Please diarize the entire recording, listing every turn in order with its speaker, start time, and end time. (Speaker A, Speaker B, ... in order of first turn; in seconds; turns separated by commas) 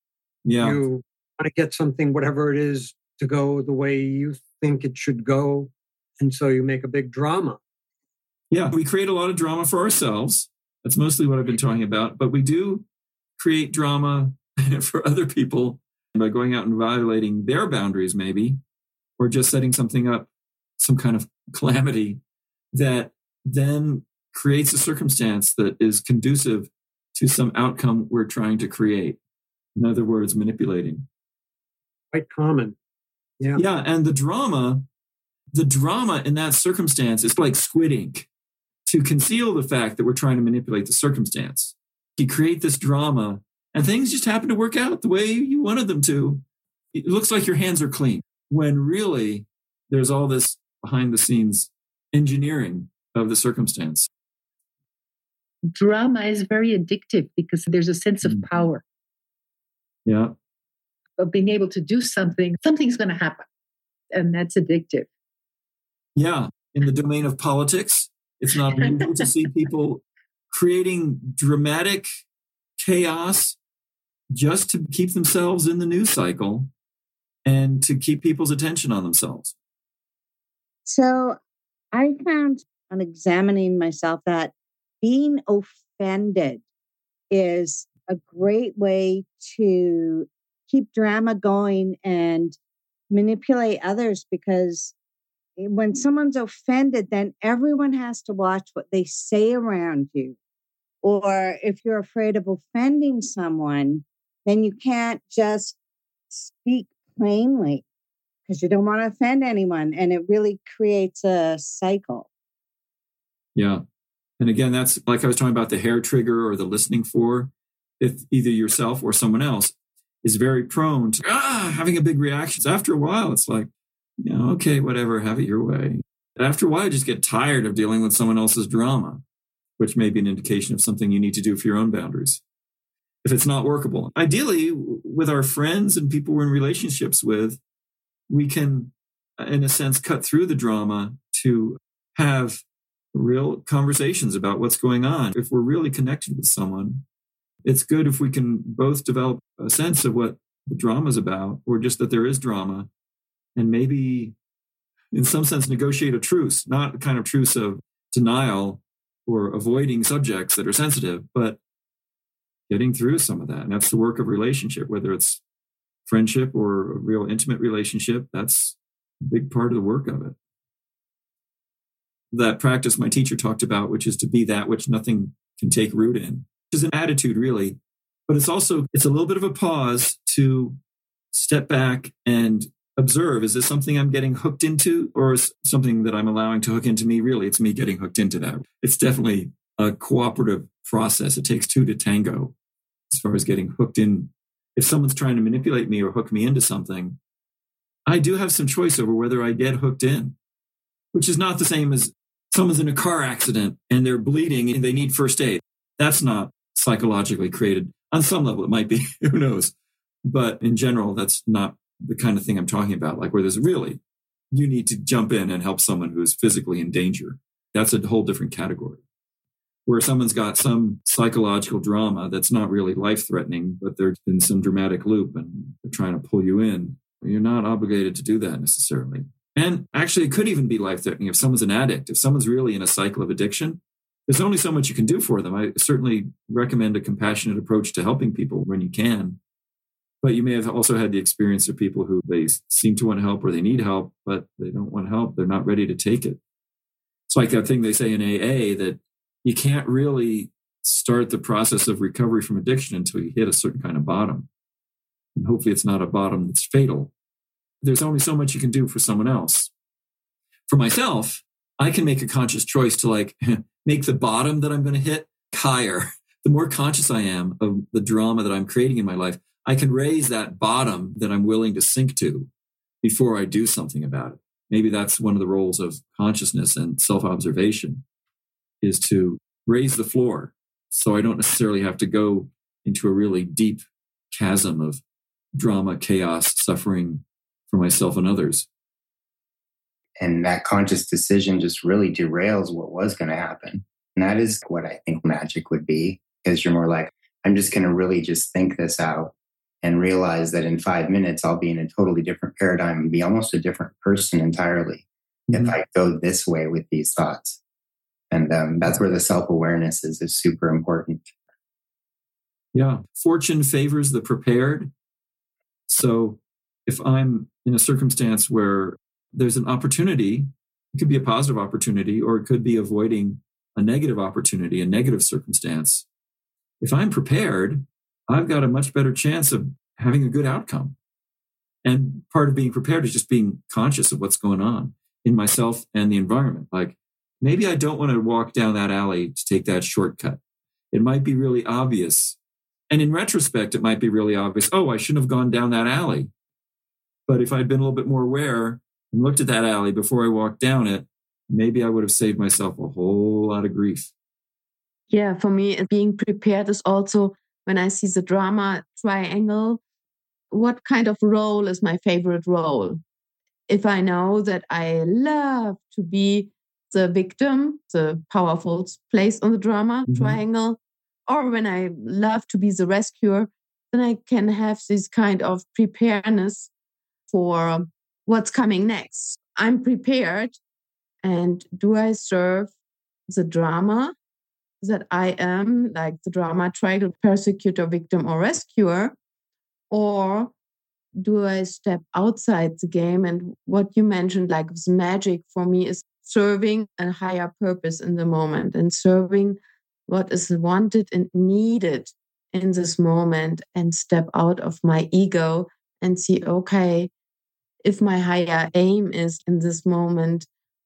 Speaker A: 0.5-0.8, Speaker B: 0.6-7.6, Speaker A: 8.5-12.9, Speaker A: 13.4-18.6, Speaker A: 19.2-22.2, Speaker A: 22.7-29.2, Speaker A: 29.8-31.1, Speaker B: 32.1-32.8, Speaker A: 33.6-34.9, Speaker A: 35.5-38.3, Speaker A: 38.9-46.4, Speaker A: 46.9-54.1, Speaker C: 55.7-58.8, Speaker A: 60.1-60.4, Speaker C: 61.2-63.5, Speaker C: 64.1-65.1, Speaker A: 66.2-72.1, Speaker A: 72.8-73.6, Speaker A: 74.3-76.7, Speaker A: 77.5-79.5, Speaker D: 80.9-81.4, Speaker D: 81.9-86.6, Speaker D: 87.3-92.6, Speaker D: 93.1-94.9, Speaker D: 95.6-100.4, Speaker D: 101.0-105.8, Speaker D: 106.3-107.8, Speaker D: 108.5-112.3, Speaker A: 113.5-113.8, Speaker A: 114.4-123.7, Speaker A: 124.2-129.2, Speaker A: 129.8-132.4, Speaker A: 133.2-137.6, Speaker A: 138.3-142.6, Speaker A: 143.1-147.0, Speaker A: 147.7-152.9, Speaker A: 153.6-154.3, Speaker A: 155.1-161.6, Speaker A: 162.7-165.4, Speaker A: 166.1-170.4, Speaker A: 172.3-180.8, Speaker A: 181.3-192.5, Speaker A: 193.1-197.2, Speaker A: 198.1-200.4, Speaker A: 201.1-209.7, Speaker A: 210.2-214.0, Speaker A: 214.5-219.0, Speaker A: 219.9-239.4, Speaker A: 240.2-246.4, Speaker A: 247.3-254.5, Speaker A: 255.4-257.1, Speaker A: 257.8-259.7, Speaker A: 260.7-272.5, Speaker A: 273.0-278.0, Speaker A: 278.8-285.0, Speaker A: 285.5-288.7, Speaker E: 290.2-307.6, Speaker A: 305.5-305.8, Speaker E: 308.3-311.3, Speaker A: 312.7-314.9, Speaker A: 315.9-326.1, Speaker A: 326.8-330.9, Speaker A: 331.8-340.4, Speaker A: 340.9-342.4, Speaker A: 342.9-346.3, Speaker A: 347.3-354.1, Speaker F: 355.1-359.8, Speaker F: 360.5-363.0, Speaker F: 363.7-376.7, Speaker A: 370.1-370.4, Speaker F: 377.3-380.6, Speaker F: 381.2-382.7, Speaker F: 383.3-384.1, Speaker F: 384.8-389.2, Speaker F: 389.9-390.5, Speaker F: 391.2-407.1, Speaker F: 407.8-410.5